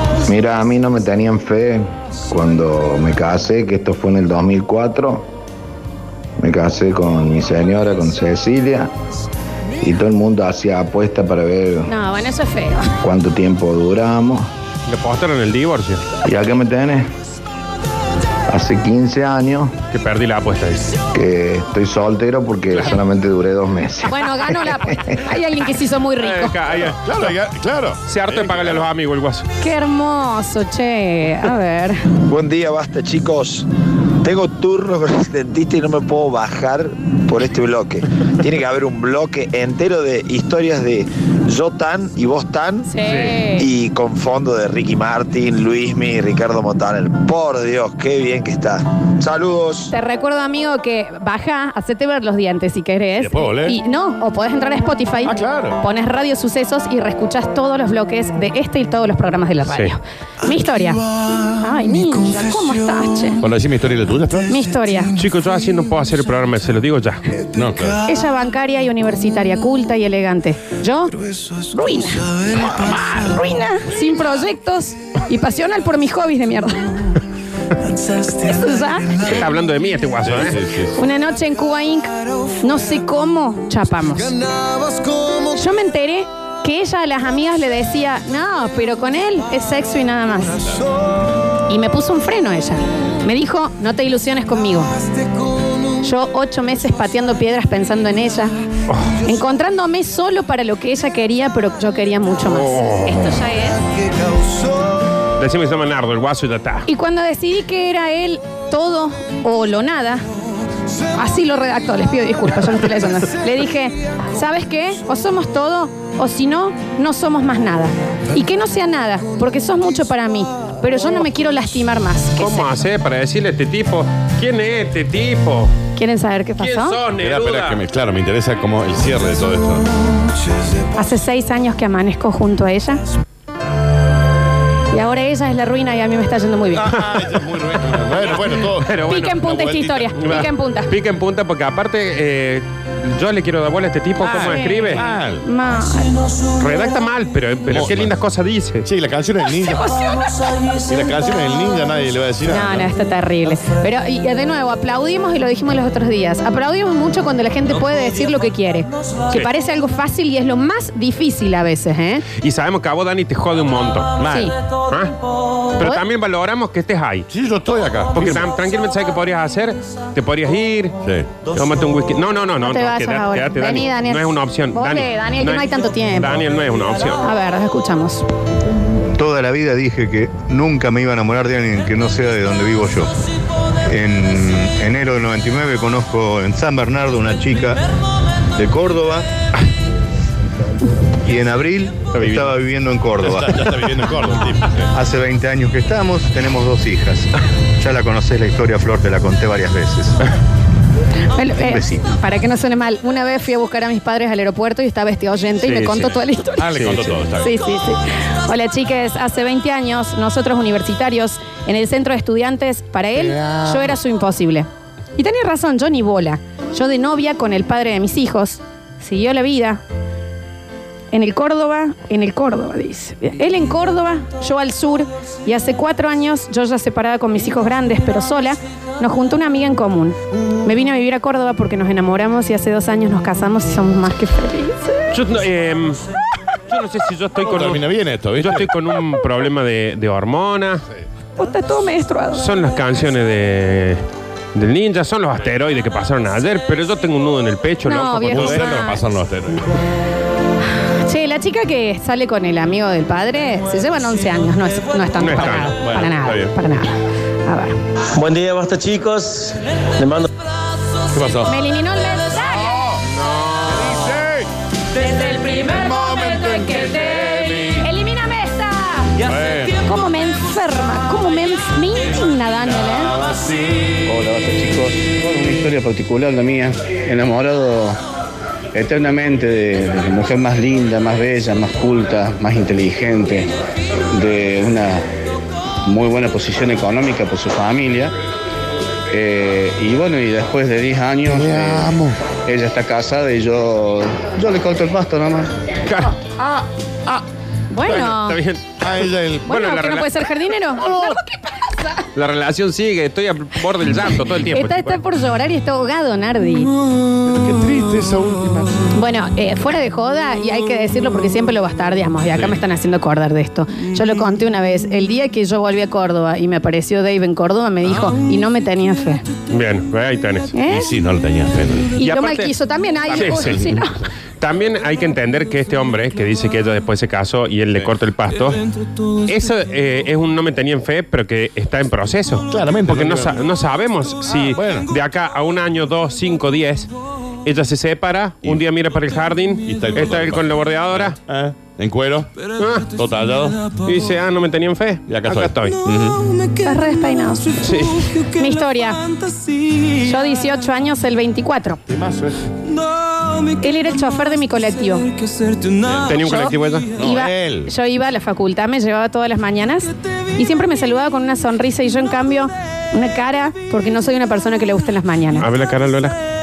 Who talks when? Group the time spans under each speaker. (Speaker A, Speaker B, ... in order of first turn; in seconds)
Speaker A: 0.2-5.3, 6.4-8.9, 9.8-11.9, 13.0-14.5, 16.2-17.1, 18.5-19.7, 21.1-24.8
Speaker B: 11.9-12.9, 24.0-26.6, 29.6-32.0, 42.9-43.6, 49.9-63.4, 64.5-65.1, 68.0-71.1, 71.7-77.2, 78.3-79.2, 81.0-82.1, 82.6-84.3, 85.5-90.5, 91.7-94.9, 96.0-98.5, 99.2-103.8, 106.8-110.2, 111.2-122.7, 126.0-127.0, 131.0-133.0, 134.9-136.9, 139.0-140.9, 144.3-146.1, 149.6-150.2, 152.4-162.2, 172.6-176.3, 177.2-178.2, 201.3-219.8, 221.1-235.1, 241.4-242.5, 247.9-249.0, 250.8-257.8, 261.4-262.8, 265.1-269.1, 269.8-273.1, 297.1-298.4, 299.5-302.0, 304.4-306.7, 308.9-319.2, 320.5-320.9, 322.0-324.0, 346.6-347.6, 348.3-349.0, 350.0-351.8, 353.6-355.1, 356.1-365.4
Speaker C: 14.9-16.0, 19.9-20.9, 26.2-27.3, 28.1-29.4, 43.0-43.4, 59.7-59.9, 65.2-67.2, 79.2-80.6, 102.5-103.3, 105.4-106.9, 122.4-125.7, 126.6-127.8, 137.0-137.3, 138.6-139.4, 140.2-145.0, 146.6-148.8, 162.4-165.1, 165.8-167.3, 168.1-170.9, 171.4-177.2, 205.6-206.2, 206.8-207.1, 235.1-236.0, 236.7-237.8, 238.4-240.8, 242.3-248.8, 255.2-255.7, 263.1-264.0, 295.9-296.1, 297.9-298.9, 299.4-300.2, 302.1-305.0, 319.5-320.5, 322.0-322.5, 323.1-323.8, 324.4-328.6, 329.2-336.9, 337.4-341.2, 342.6-342.9, 343.8-345.8, 347.6-348.1, 356.1-356.9, 365.4-366.2
Speaker D: 26.8-28.9, 53.2-53.8, 55.2-55.8, 63.4-64.5, 67.5-68.0, 80.2-81.0, 127.2-129.9, 136.7-140.5, 144.2-145.4, 147.7-148.1, 148.8-149.9, 150.9-152.9, 164.2-164.5, 167.3-168.5, 171.0-171.4, 193.2-194.9, 206.6-207.5, 213.2-213.9, 237.4-238.7, 248.3-249.7, 255.8-256.5, 261.1-261.5, 262.4-263.0, 263.6-264.5, 265.6-267.8, 269.2-269.7, 291.3-292.2, 298.8-299.5, 300.8-301.2, 307.2-308.8, 320.6-322.0, 332.5-333.4, 334.3-334.9, 339.6-342.3, 342.9-343.6, 345.1-346.2, 351.9-352.4, 355.8-356.1, 357.0-357.7
Speaker E: 32.3-33.6, 34.2-42.9, 43.6-49.9
Speaker F: 179.2-183.1, 183.9-187.8, 188.6-189.3, 191.2-194.1, 194.9-200.2, 201.6-202.0
Speaker G: 258.1-260.2
Speaker H: 274.0-278.0, 278.7-283.5, 284.1-285.0, 285.9-288.1, 289.1-291.9, 292.4-295.5